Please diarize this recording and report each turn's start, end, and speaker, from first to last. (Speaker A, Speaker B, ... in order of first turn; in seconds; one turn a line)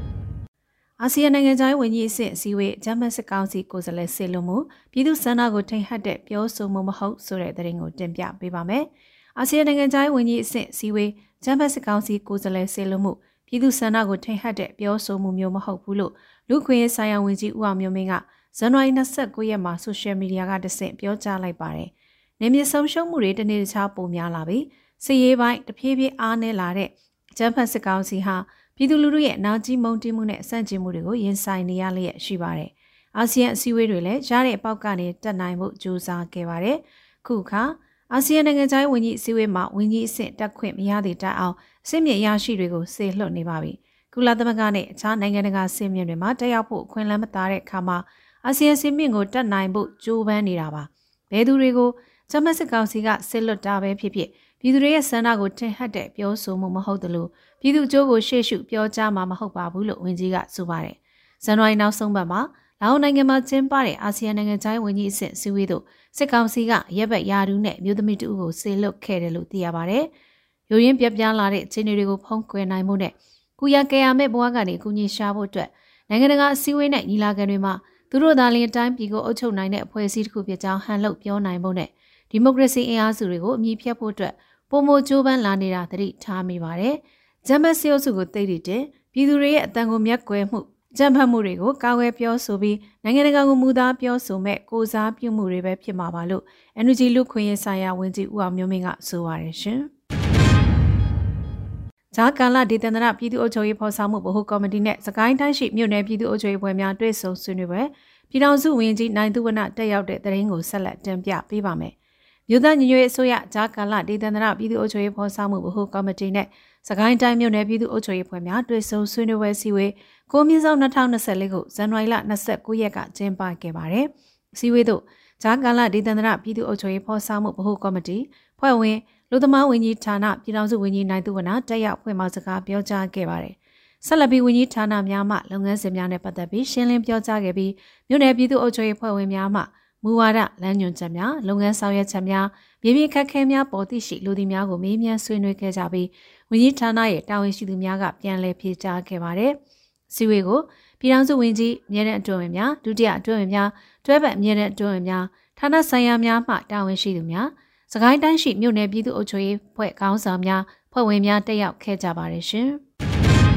Speaker A: 1.0-70.1
Speaker A: 70.7-99.9
Speaker A: 102.1-111.9
Speaker A: 112.5-149.6
Speaker A: 150.1-162.8